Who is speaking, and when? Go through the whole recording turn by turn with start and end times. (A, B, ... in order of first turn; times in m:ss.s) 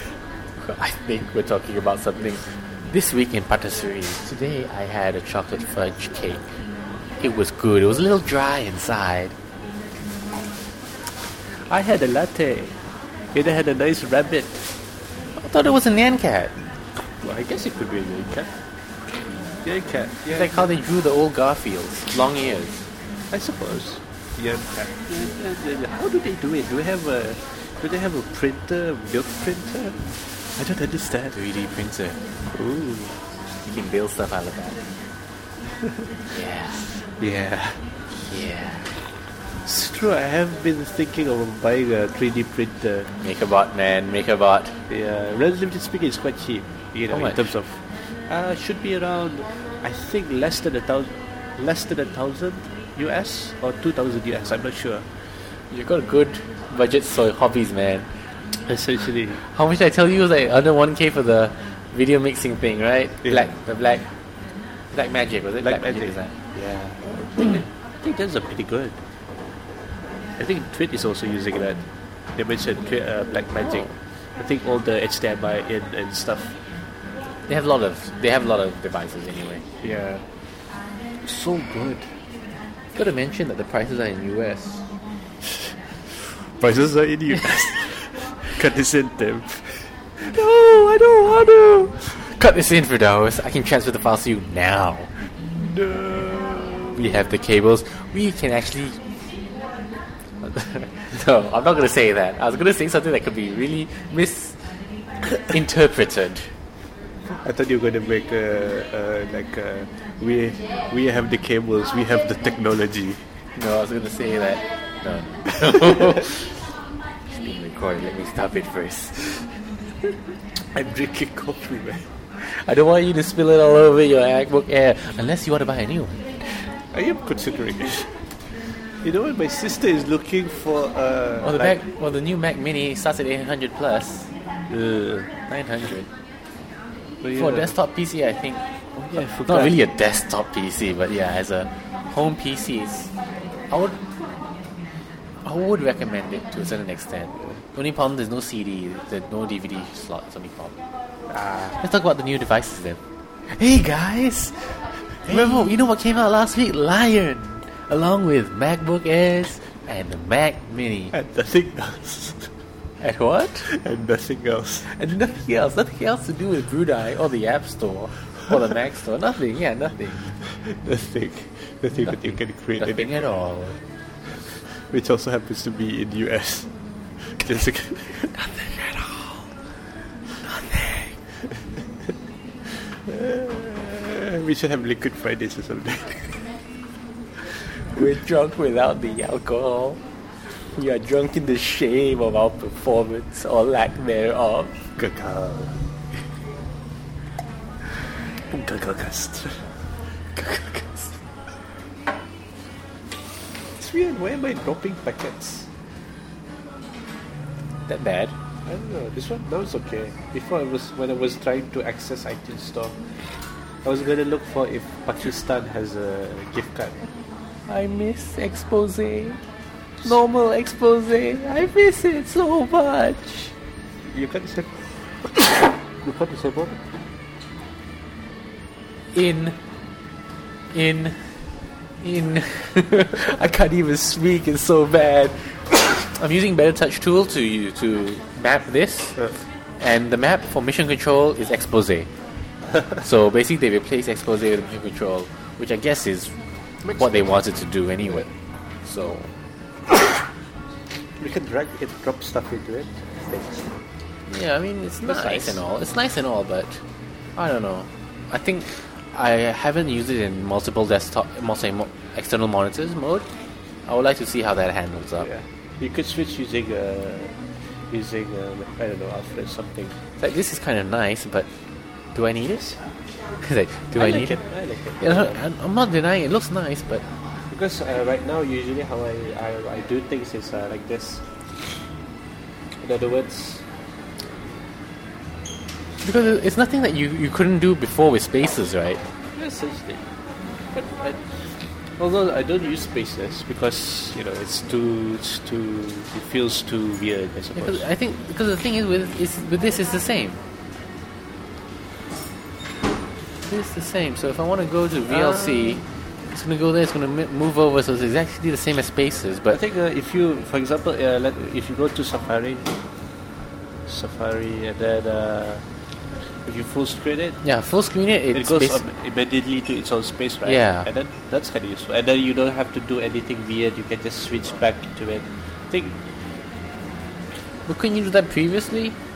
0:00.6-0:06.4 A
0:07.2-0:09.3 A
0:11.7-0:12.8 B
0:13.3-0:14.7 B
0:15.4-0:16.6 A
0:17.2-0:18.5 B
0:19.5-0:20.7 B
0:20.3-0:22.8 A
0:23.3-0:31.4 B
0:31.3-0:32.2 A
0:32.5-0:33.2 B
0:33.6-0:34.8 A
0:36.3-0:37.0 A
0:37.1-0:37.8 B
0:38.2-0:38.9 A
0:39.6-0:43.1 B
0:43.2-0:44.8 A
0:44.9-0:55.1 B
0:47.1-0:47.4 A
0:55.7-0:58.1 A
0:58.6-0:59.4 B
0:59.4-1:04.0 A
1:03.2-1:03.5 B
1:04.9-1:06.3 A
1:05.6-1:09.0 B
1:10.4-1:16.6 B
1:17.5-1:19.7 A
1:19.8-1:20.2 B
1:21.2-1:22.1 B
1:22.9-1:24.8 A
1:26.6-1:32.1 B
1:32.0-1:35.1 A
1:35.6-1:37.1 B
1:36.9-1:39.0 A
1:40.4-1:44.7 A
1:45.3-1:46.5 A
1:47.3-1:53.2 B
1:53.6-1:56.6 A
1:57.3-1:59.5 A
2:00.7-2:02.1 B
2:02.4-2:06.2 A
2:06.9-2:08.1 B
2:09.0-2:11.8 B
2:11.4-2:14.3 A
2:14.7-2:15.3 B
2:15.5-2:16.1 A
2:17.2-2:17.7 B
2:17.3-2:23.1 A
2:19.0-2:19.8 B
2:23.7-2:24.1 A
2:25.4-2:30.8 A
2:31.3-2:31.8 B
2:31.7-2:41.1 A
2:35.2-2:35.7 B
2:41.1-2:42.5 B
2:43.0-2:43.7 A
2:43.6-2:45.0 B
2:44.8-2:50.3 A
2:50.4-2:53.3 B
2:51.9-2:53.8 A
2:54.7-2:58.3 B
2:58.3-2:59.5 A
3:00.4-3:01.2 A
3:02.8-3:06.5 B
3:07.9-3:14.8 A
3:15.0-3:15.9 B
3:18.5-3:19.7 B
3:20.3-3:21.2 A
3:23.7-3:25.7 B
3:27.9-3:28.3 A
3:28.6-3:33.0 B
3:33.8-3:37.1 B
3:37.7-3:39.4 A
3:40.0-3:43.5 A
3:44.0-3:46.8 B
3:49.1-3:49.6 A
3:50.7-3:51.4 A
3:52.0-4:02.1 A
4:03.0-4:06.3 A
4:06.8-4:07.4 B
4:07.0-4:08.3 A
4:08.8-4:09.3 A
4:11.2-4:13.7 B
4:14.3-4:16.8 A
4:15.0-4:15.6 B
4:17.4-4:23.3 A
4:23.8-4:25.3 A
4:25.2-4:27.4 B
4:27.9-4:29.9 B
4:30.2-4:31.5 A
4:32.1-4:32.8 A
4:33.4-4:34.4 A
4:33.9-4:35.4 B
4:35.0-4:37.1 A
4:37.5-4:41.2 B
4:42.8-4:43.6 B
4:46.0-4:49.0 A
4:49.3-4:50.0 B
4:50.7-4:57.8 B
4:57.6-5:00.4 A
5:03.4-5:09.6 A
5:05.1-5:05.8 B
5:09.5-5:12.8 B
5:13.8-5:15.6 B
5:16.4-5:17.4 B
5:17.4-5:18.8 A
5:18.3-5:26.0 B
5:20.4-5:20.9 A
5:27.6-5:29.0 A